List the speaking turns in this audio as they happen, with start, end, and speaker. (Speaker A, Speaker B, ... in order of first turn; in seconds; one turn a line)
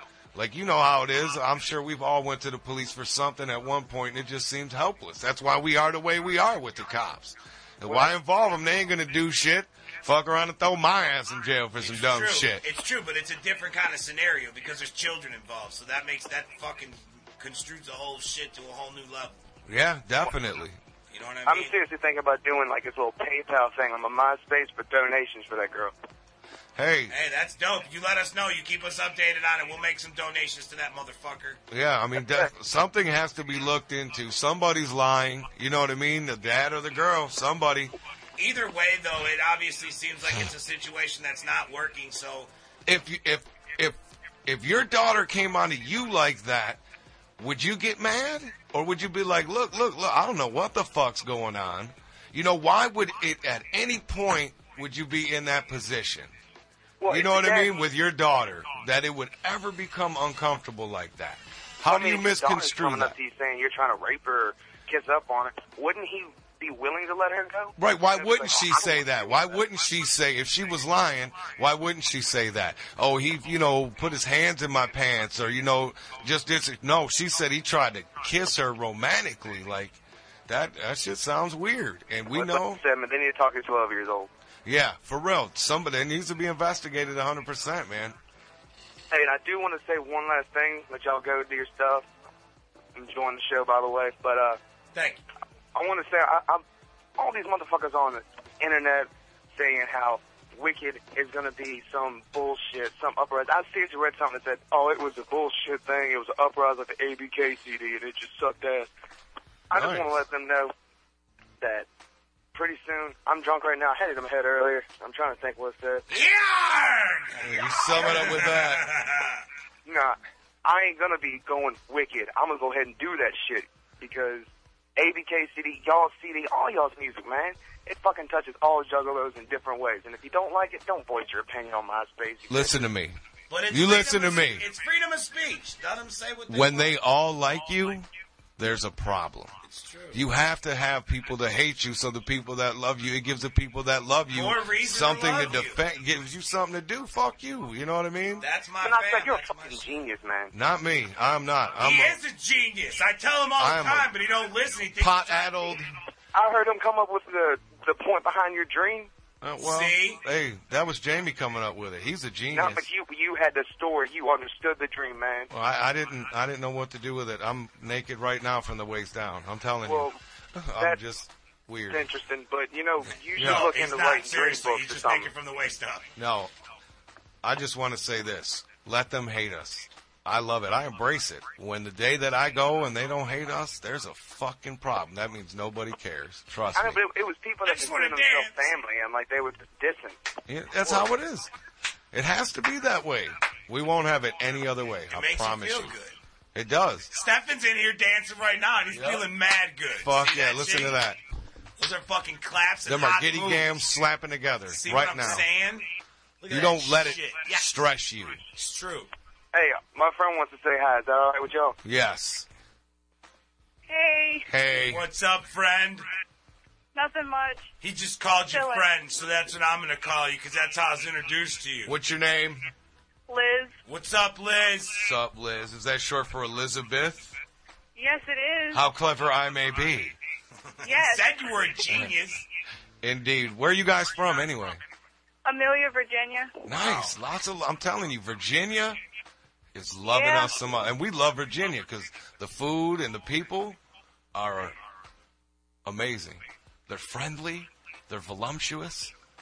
Speaker A: 0.3-12.6
Speaker B: 11.8-19.4
Speaker A: 19.7-20.8
Speaker B: 21.1-21.8
Speaker C: 21.5-25.9
Speaker A: 26.8-27.1
Speaker B: 27.1-31.6
Speaker A: 31.7-37.9
Speaker B: 38.4-42.5
Speaker A: 42.9-46.8
Speaker A: 47.4-56.3
Speaker C: 57.0-57.7
Speaker A: 57.1-63.1
Speaker C: 61.9-69.5
Speaker A: 67.8-82.8
Speaker C: 82.3-84.3
Speaker A: 84.7-88.2
Speaker C: 89.1-92.1
Speaker C: 93.0-94.6
Speaker B: 95.0-95.2
Speaker C: 95.7-96.6
Speaker C: 97.2-108.9
Speaker C: 109.7-110.7
Speaker A: 109.7-110.2
Speaker C: 111.6-111.9
Speaker C: 112.5-116.1
Speaker B: 116.1-119.4
Speaker A: 117.4-118.8
Speaker C: 119.8-132.9
Speaker A: 132.5-133.2
Speaker B: 133.5-137.0
Speaker A: 133.7-134.7
Speaker A: 136.5-138.1
Speaker A: 138.6-139.5
Speaker B: 139.6-140.2
Speaker A: 140.1-148.5
Speaker B: 144.3-145.8
Speaker B: 148.4-149.8
Speaker C: 148.8-150.5
Speaker A: 150.5-152.2
Speaker B: 151.8-155.8
Speaker A: 153.6-154.1
Speaker A: 155.0-155.9
Speaker C: 156.3-159.1
Speaker A: 159.4-162.9
Speaker B: 159.6-160.2
Speaker C: 162.5-165.5
Speaker A: 165.5-172.1
Speaker C: 169.9-170.2
Speaker C: 171.9-175.3
Speaker B: 173.3-176.1
Speaker A: 173.4-173.7
Speaker A: 176.2-176.5
Speaker A: 177.4-187.0
Speaker C: 186.8-190.2
Speaker B: 187.6-188.8
Speaker A: 190.5-191.5
Speaker A: 192.1-195.9
Speaker B: 195.1-196.2
Speaker A: 196.6-197.1
Speaker B: 197.1-201.0
Speaker A: 198.9-199.3
Speaker A: 200.0-201.2
Speaker B: 201.8-203.8
Speaker A: 202.8-205.5
Speaker B: 204.7-205.9
Speaker B: 206.4-207.7
Speaker A: 206.5-208.4
Speaker B: 208.6-209.1
Speaker C: 209.5-211.8
Speaker A: 211.8-212.5
Speaker D: 213.9-214.5
Speaker A: 214.5-215.1
Speaker B: 214.9-216.1
Speaker D: 216.9-217.7
Speaker B: 217.8-221.9
Speaker D: 218.5-218.9
Speaker A: 221.8-222.7
Speaker D: 223.3-223.8
Speaker B: 223.9-225.1
Speaker A: 225.0-227.3
Speaker D: 227.9-228.8
Speaker A: 228.7-230.2
Speaker D: 230.8-231.4
Speaker B: 230.8-232.4
Speaker A: 233.0-234.8
Speaker D: 235.4-236.6
Speaker A: 236.7-239.0
Speaker B: 236.8-237.1
Speaker A: 239.7-243.8
Speaker D: 240.1-240.6
Speaker A: 244.3-244.8
Speaker A: 245.8-249.1